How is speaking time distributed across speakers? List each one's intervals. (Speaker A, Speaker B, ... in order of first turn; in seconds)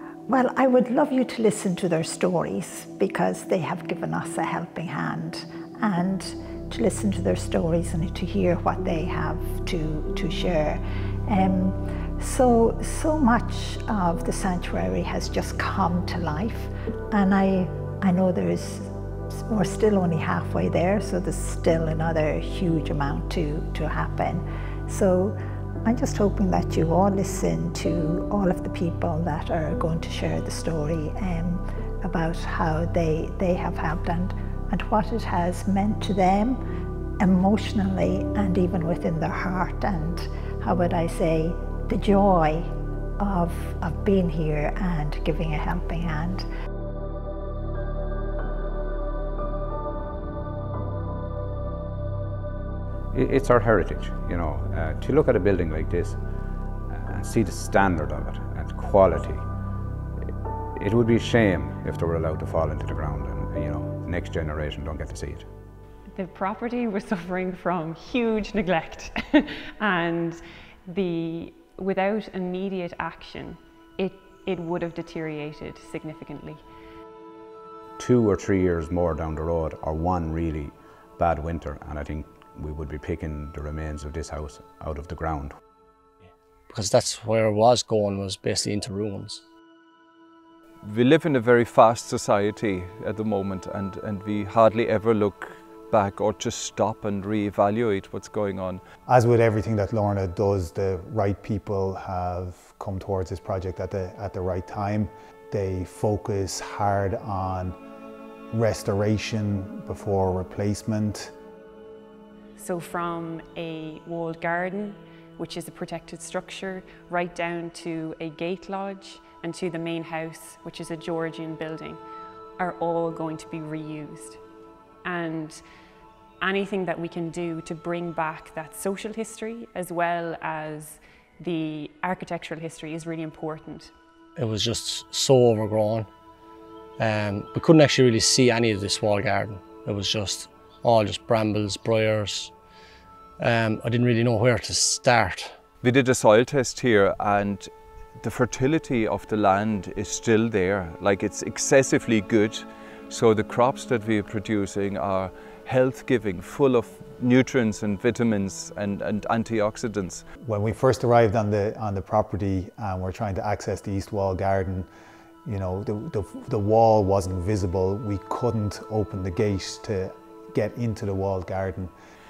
Speaker A: 0.3-36.6, 37.2-46.5
Speaker B: 53.1-56.2, 56.9-59.5, 60.8-65.5, 78.0-85.6
Speaker C: 66.2-76.6, 112.6-122.0, 122.6-124.4, 125.0-125.6, 126.4-133.9
Speaker D: 86.7-89.4, 134.4-136.1, 137.0-142.5, 143.4-145.6
Speaker E: 90.8-98.8, 145.8-160.2
Speaker F: 99.1-107.8, 108.5-111.3, 160.4-164.9, 165.4-171.9